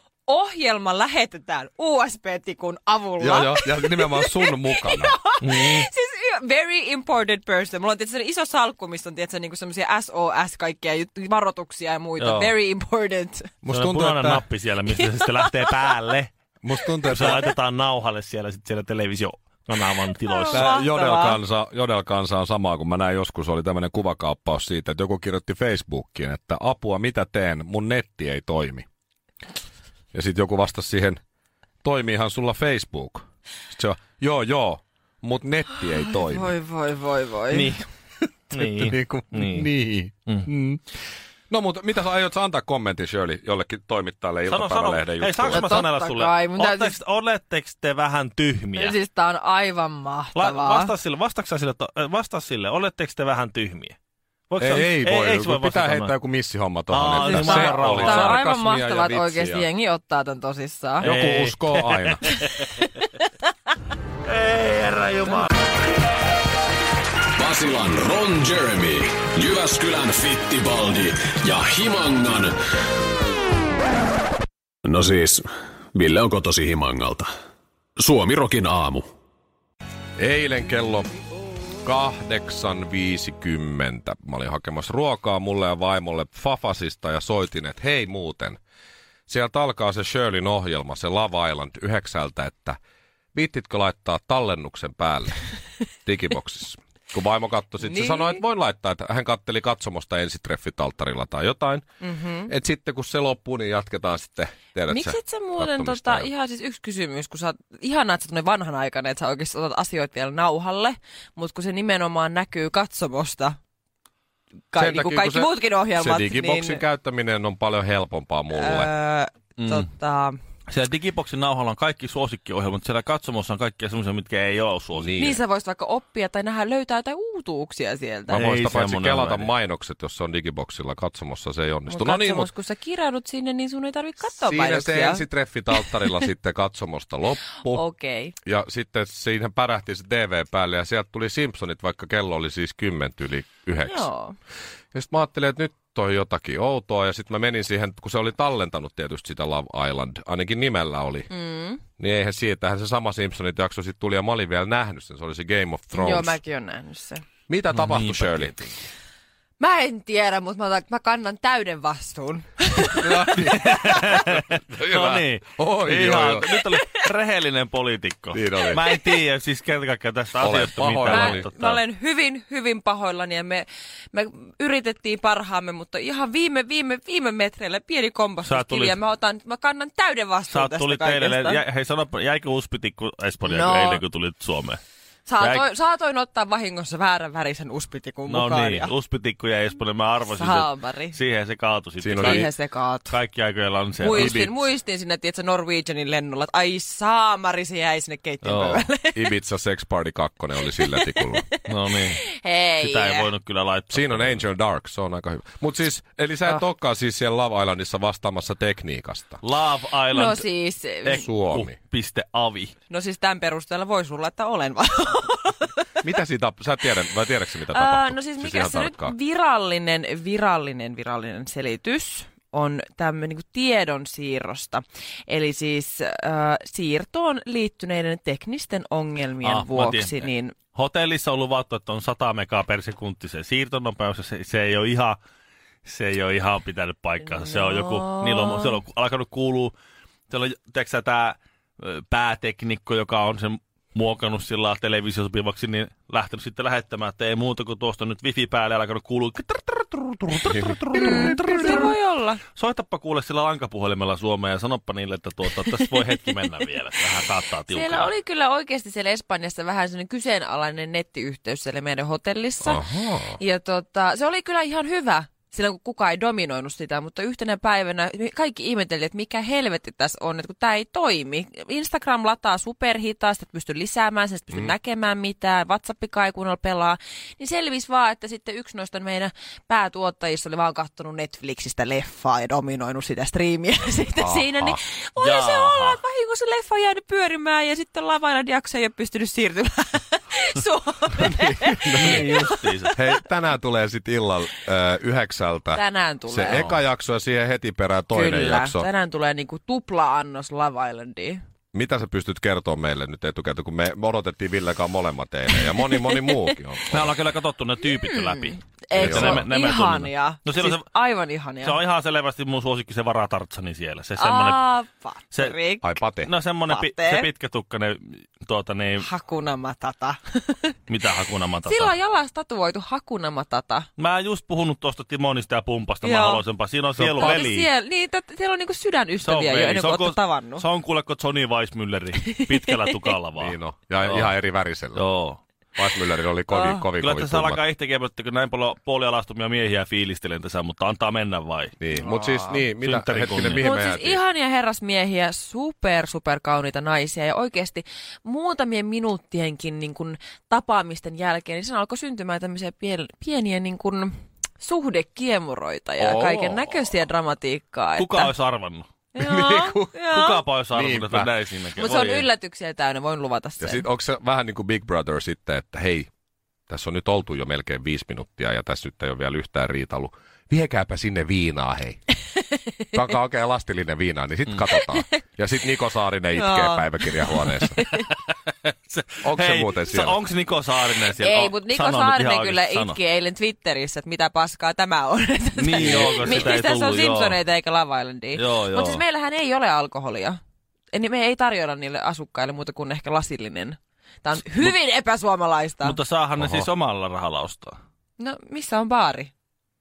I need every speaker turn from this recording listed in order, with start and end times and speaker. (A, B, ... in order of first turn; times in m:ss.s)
0:00.3-0:13.5 A
0:03.2-0:05.2 B
0:05.4-0:05.8 C
0:12.2-0:12.5 C
0:13.6-0:14.4 B
0:13.7-0:16.3 C
0:15.4-0:15.7 A
0:16.6-0:17.5 B
0:17.1-0:20.7 C
0:20.2-0:21.4 A
0:20.5-0:28.8 B
0:30.1-0:31.2 B
0:31.8-0:36.5 B
0:35.9-0:37.8 A
0:37.5-0:37.8 C
0:38.5-0:39.7 C
0:38.5-0:40.8 B
0:41.5-0:45.8 B
0:44.5-0:48.9 C
0:45.5-0:47.0 A
0:48.8-0:50.9 A
0:50.3-0:54.0 C
0:54.5-0:56.1 C
0:54.6-0:59.7 B
0:56.9-0:58.4 C
0:57.2-1:01.1 A
1:01.0-1:02.2 B
1:01.0-1:02.7 C
1:02.2-1:03.1 A
1:04.3-1:05.5 C
1:07.4-1:12.5 D
1:14.8-1:17.3 D
1:18.0-1:19.0 D
1:20.2-1:21.1 B
1:21.8-1:28.6 B
1:29.3-1:32.8 B
1:33.3-1:35.4 B
1:36.0-1:41.8 B
1:37.8-1:38.4 A
1:42.0-1:42.5 A
1:42.5-1:46.3 B
1:44.9-1:53.6 A
1:54.7-1:56.8 A
1:54.7-1:58.9 B
1:58.5-2:00.4 A
1:59.6-1:59.8 C
2:00.7-2:05.4 C
2:04.9-2:05.4 B
2:05.2-2:08.4 A
2:08.3-2:12.5 B
2:08.3-2:09.5 C
2:11.9-2:16.2 A
2:14.3-2:17.8 B
2:17.7-2:18.3 A
2:18.4-2:24.1 B
2:23.8-2:24.4 A
2:24.9-2:31.3 B
2:31.3-2:31.8 A
2:32.0-2:36.4 B
2:35.9-2:37.2 A
2:37.5-2:38.8 B
2:37.7-2:38.5 C
2:39.6-2:43.3 A
2:42.9-2:46.6 B
2:43.3-2:51.8 C
2:48.3-2:48.8 B
2:50.4-2:51.5 B
2:51.0-3:01.6 A
2:58.4-2:59.0 C
3:00.5-3:04.8 C
3:03.4-3:04.0 A
3:05.2-3:08.9 A
3:05.4-3:05.6 C
3:08.3-3:12.5 C
3:10.3-3:11.2 A
3:12.0-3:12.4 B
3:12.2-3:13.1 A
3:13.1-3:14.3 C
3:14.0-3:19.3 A
3:14.1-3:14.6 B
3:18.4-3:18.9 C
3:19.1-3:21.4 B
3:20.6-3:21.6 A
3:21.7-3:22.2 C
3:22.1-3:23.3 A
3:22.8-3:24.4 C
3:23.9-3:29.4 B
3:29.4-3:30.4 C
3:30.1-3:31.2 A
3:31.0-3:32.7 C
3:31.1-3:31.8 B
3:32.9-3:35.9 A
3:36.0-3:39.1 B
3:37.7-3:50.5 A
3:49.4-3:55.2 C
3:55.8-3:59.7 C
3:57.3-3:58.8 A
4:00.3-4:11.9 C
4:10.5-4:11.2 B
4:10.9-4:12.4 A
4:12.6-4:18.1 C
4:17.7-4:52.6 A
4:22.6-4:23.4 B
4:44.2-4:44.8 B
4:45.2-4:46.0 C
4:51.2-4:58.9 B
4:52.0-4:52.9 C
4:55.7-4:56.7 A
4:58.1-5:01.4 A
5:01.7-5:07.2 B
5:05.6-5:06.4 A
5:06.9-5:10.8 C
5:07.8-5:11.8 A
5:08.9-5:09.5 B
5:11.6-5:14.6 C
5:14.2-5:16.0 A
5:15.8-5:16.3 B
5:16.2-5:19.0 C
5:16.6-5:17.3 A
5:19.0-5:20.7 A
5:20.9-5:21.9 C
5:21.6-5:23.9 A
5:24.0-5:27.7 C
5:26.0-5:26.4 A
5:27.0-5:27.4 B
5:27.1-5:30.6 A
5:29.2-5:34.3 C
5:32.2-5:33.1 A
5:33.4-5:35.0 B
5:34.9-5:35.4 C
5:35.8-5:37.6 B
5:36.5-5:36.8 A
5:37.0-5:41.7 C
5:41.8-5:44.2 B
5:41.9-5:42.6 A
5:42.8-5:43.6 C
5:43.4-5:58.3 A
5:56.0-5:56.7 B
5:58.0-5:58.9 C
5:59.1-6:00.4 A
5:59.2-6:00.0 B
6:00.1-6:02.3 C
6:00.7-6:01.3 B
6:01.8-6:03.8 A
6:03.6-6:06.1 B
6:06.7-6:12.0 B
6:12.9-6:17.8 B
6:14.7-6:15.1 A
6:16.4-6:18.0 A
6:17.8-6:23.0 C
6:19.2-6:20.2 B
6:21.1-6:30.4 A
6:25.6-6:27.4 C
6:25.8-6:26.5 B
6:28.4-6:29.0 C
6:30.9-6:36.0 A
6:35.8-6:37.8 C
6:36.4-6:36.7 B
6:38.2-6:39.3 A